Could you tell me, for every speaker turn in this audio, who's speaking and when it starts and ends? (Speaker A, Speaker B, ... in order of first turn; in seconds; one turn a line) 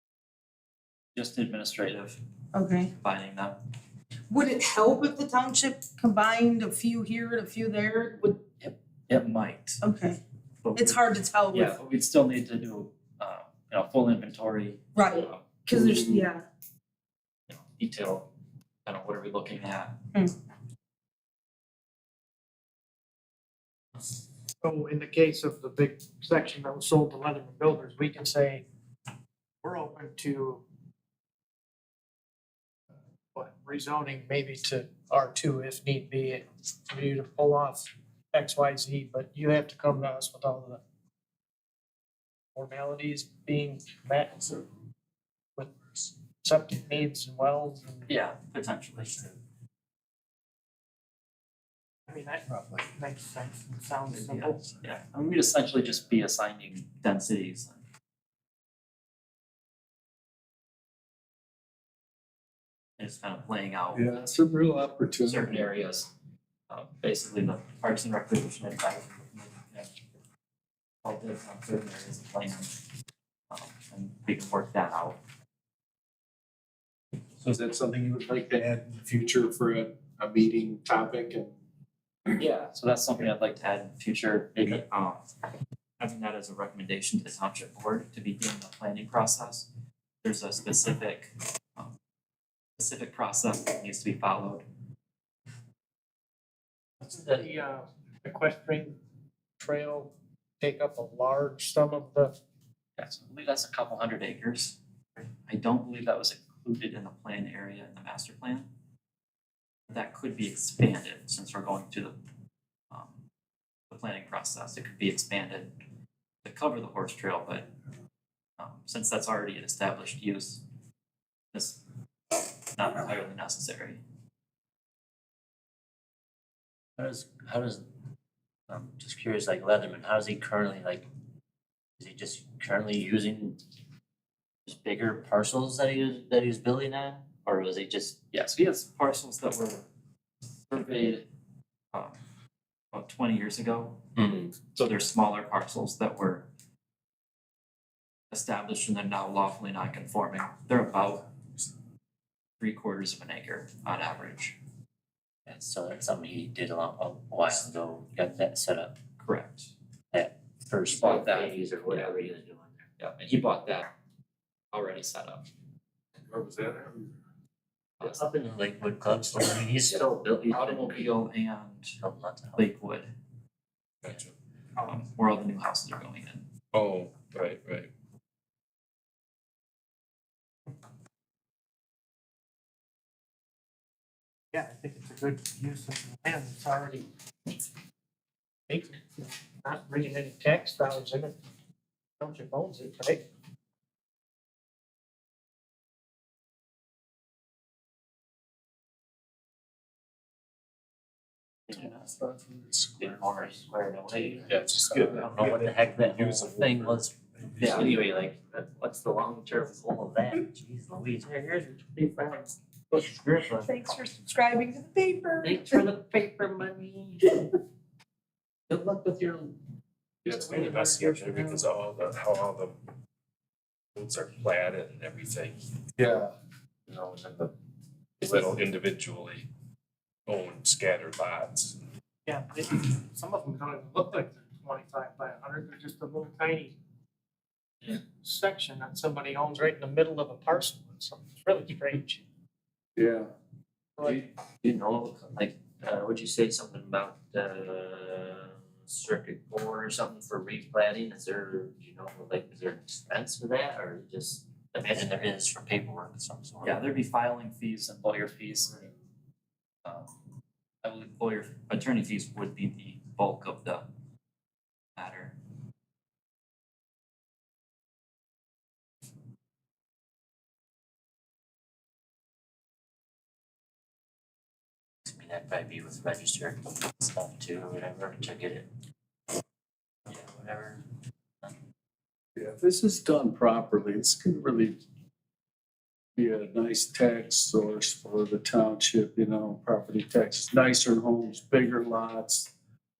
Speaker A: 1.2-2.2
Speaker B: 2.5-2.9
Speaker A: 3.0-3.6
Speaker B: 4.3-8.4
Speaker A: 8.6-9.8
Speaker B: 9.8-10.2
Speaker A: 10.6-15.5
Speaker B: 10.8-11.8
Speaker B: 14.9-16.4
Speaker A: 17.5-18.3
Speaker A: 18.9-20.0
Speaker C: 24.6-28.6
Speaker C: 29.6-30.6
Speaker C: 33.4-40.8
Speaker C: 42.5-44.6
Speaker C: 45.6-48.1
Speaker A: 48.1-49.3
Speaker C: 52.1-54.7
Speaker A: 54.1-57.8
Speaker A: 63.0-64.3
Speaker D: 63.9-65.7
Speaker A: 65.2-66.1
Speaker A: 66.7-69.9
Speaker A: 71.0-72.7
Speaker A: 73.5-75.2
Speaker D: 77.4-81.5
Speaker A: 82.4-85.2
Speaker A: 86.0-89.7
Speaker A: 90.2-91.9
Speaker A: 92.8-94.7
Speaker E: 97.0-97.5
Speaker C: 97.3-99.0
Speaker C: 99.6-102.4
Speaker A: 103.0-104.8
Speaker A: 105.5-108.7
Speaker A: 109.9-112.2
Speaker A: 112.9-113.2
Speaker A: 113.9-115.7
Speaker A: 116.4-117.7
Speaker A: 118.6-120.6
Speaker A: 121.5-121.8
Speaker A: 122.8-124.0
Speaker E: 127.0-127.8
Speaker E: 128.7-131.1
Speaker E: 132.0-133.6
Speaker E: 134.7-138.2
Speaker A: 138.3-139.8
Speaker A: 140.7-141.3
Speaker A: 142.9-144.0
Speaker E: 144.2-144.5
Speaker A: 144.7-146.5
Speaker A: 148.3-151.3
Speaker A: 152.6-154.6
Speaker E: 155.5-159.0
Speaker A: 159.2-159.7
Speaker E: 160.1-162.8
Speaker A: 160.9-162.2
Speaker A: 163.0-163.9
Speaker A: 164.7-165.5
Speaker D: 166.3-167.0
Speaker E: 168.0-171.0
Speaker A: 170.5-171.9
Speaker E: 172.0-172.6
Speaker A: 172.6-173.1
Speaker A: 174.8-176.5
Speaker F: 176.7-177.9
Speaker C: 184.5-187.1
Speaker C: 188.7-191.4
Speaker C: 192.2-193.2
Speaker D: 201.7-203.2
Speaker A: 203.0-205.1
Speaker E: 204.1-213.7
Speaker D: 204.5-205.3
Speaker F: 205.3-207.0
Speaker A: 207.6-208.0
Speaker B: 213.6-215.9
Speaker E: 215.4-217.3
Speaker E: 218.7-219.6
Speaker E: 220.2-221.7
Speaker F: 220.3-222.8
Speaker F: 224.0-225.6
Speaker D: 226.0-226.3
Speaker F: 226.9-227.5
Speaker F: 228.2-229.5
Speaker F: 230.3-231.7
Speaker C: 232.3-236.8
Speaker C: 237.9-242.2
Speaker D: 243.0-243.3
Speaker C: 244.0-244.3
Speaker E: 244.0-256.8
Speaker A: 256.6-258.8
Speaker A: 259.9-260.1
Speaker A: 260.8-263.9
Speaker A: 265.0-265.4
Speaker E: 275.1-278.7
Speaker E: 280.1-280.8
Speaker D: 282.4-284.8
Speaker D: 286.2-292.5